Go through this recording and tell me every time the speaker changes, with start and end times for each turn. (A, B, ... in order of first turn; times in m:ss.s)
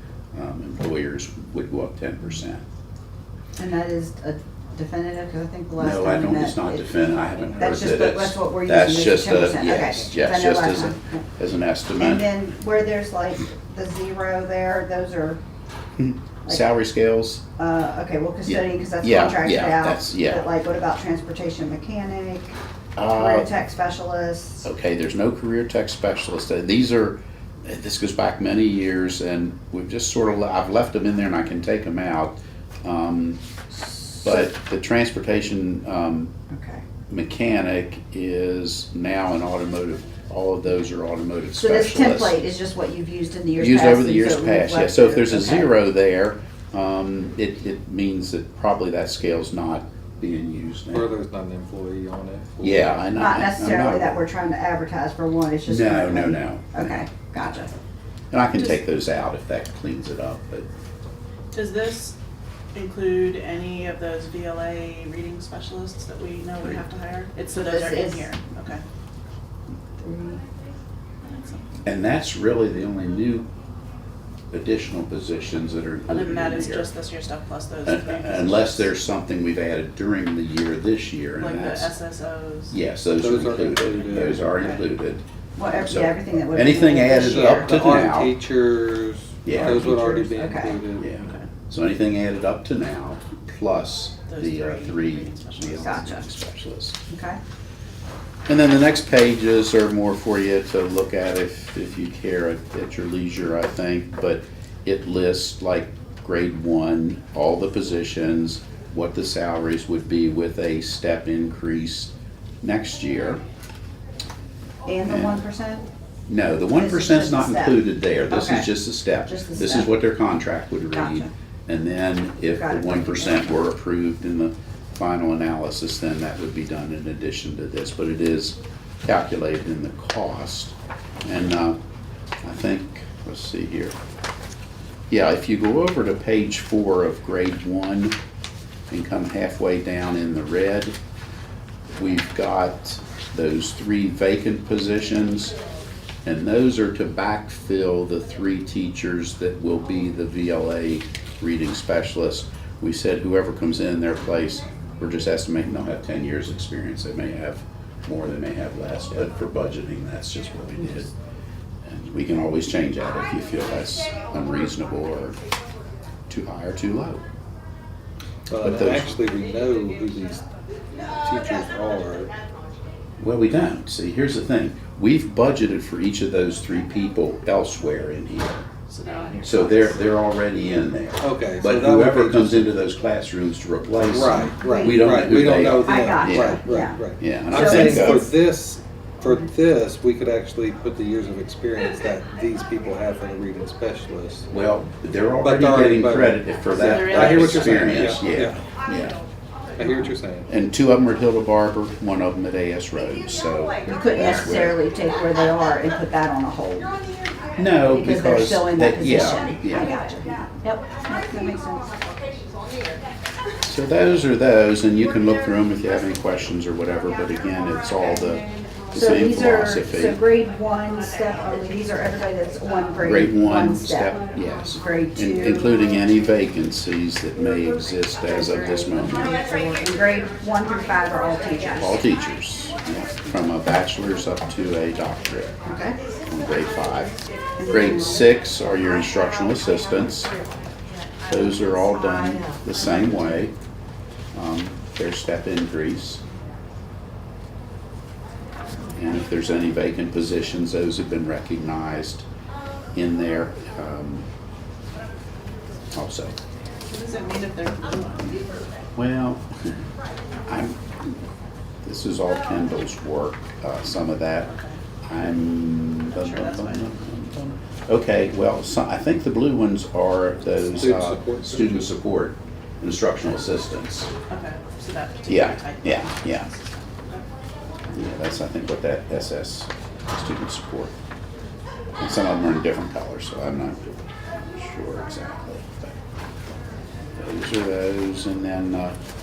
0:00.3-0:02.6 A
0:03.6-0:07.0 B
0:05.8-0:12.2 A
0:07.6-0:11.2 B
0:12.0-0:15.4 B
0:16.0-0:17.4 A
0:17.6-0:22.6 B
0:18.5-0:20.5 A
0:23.0-0:23.5 A
0:23.1-0:24.7 B
0:24.6-0:33.4 A
0:33.8-0:34.5 B
0:34.2-0:36.3 A
0:36.5-0:36.8 B
0:37.1-0:42.4 A
0:41.6-0:45.8 B
0:43.6-0:51.1 A
0:50.9-0:53.0 C
0:52.6-0:54.1 A
0:53.1-0:57.7 B
0:55.7-0:56.9 A
0:58.3-1:00.7 A
1:01.5-1:02.2 D
1:02.7-1:08.8 D
1:07.5-1:08.3 B
1:10.0-1:10.4 B
1:11.2-1:11.8 D
1:11.8-1:13.5 A
1:14.5-1:16.9 A
1:16.1-1:18.9 D
1:17.8-1:22.0 A
1:21.4-1:22.8 D
1:22.7-1:28.3 A
1:23.2-1:24.5 C
1:25.6-1:27.8 B
1:27.2-1:31.1 C
1:29.4-1:30.2 A
1:30.1-1:30.8 B
1:31.0-1:37.0 A
1:31.2-1:31.5 D
1:34.3-1:36.0 D
1:35.8-1:36.3 B
1:37.1-1:37.4 B
1:38.5-1:53.4 A
1:54.9-1:55.9 B
1:55.1-1:55.4 A
1:56.3-2:11.8 A
1:56.7-1:58.7 B
1:59.2-1:59.9 B
2:00.9-2:01.3 B
2:02.5-2:03.6 B
2:12.4-2:14.0 A
2:15.1-2:18.2 A
2:18.9-2:21.0 A
2:22.0-2:25.6 A
2:26.2-2:41.1 A
2:41.8-2:45.4 A
2:46.3-2:47.2 A
2:48.5-2:50.4 C
2:48.6-2:49.1 A
2:51.2-2:52.3 C
2:53.2-2:58.6 A
2:58.9-3:00.0 D
2:59.4-3:08.3 A
3:01.2-3:02.7 C
3:04.0-3:14.5 C
3:04.6-3:05.2 B
3:05.8-3:08.3 B
3:14.5-3:19.2 A
3:15.4-3:18.6 C
3:16.8-3:18.1 D
3:19.8-3:20.5 C
3:19.8-3:24.8 A
3:23.8-3:27.0 B
3:27.6-3:30.0 A
3:27.8-3:31.9 B
3:33.6-3:40.2 A
3:39.0-3:44.2 B
3:43.0-3:49.5 A
3:44.7-3:45.6 B
3:48.5-3:52.0 B
3:51.7-3:55.6 A
3:55.6-3:56.0 B
3:56.2-3:57.2 A
3:57.6-3:57.9 B
3:57.7-4:00.3 A
4:01.3-4:03.5 A
4:04.3-4:06.2 A
4:09.0-4:12.3 A
4:12.9-4:14.3 A
4:15.9-4:16.4 A
4:16.9-4:18.5 D
4:19.0-4:19.8 A
4:20.5-4:20.8 A
4:21.8-4:24.5 A
4:24.4-4:24.8 D
4:25.0-4:34.1 A
4:26.1-4:26.9 D
4:30.7-4:31.9 C
4:34.3-4:37.2 D
4:35.3-4:36.5 A
4:37.9-4:40.9 A
4:42.0-4:43.9 A
4:44.4-4:46.0 A
4:47.2-4:49.0 A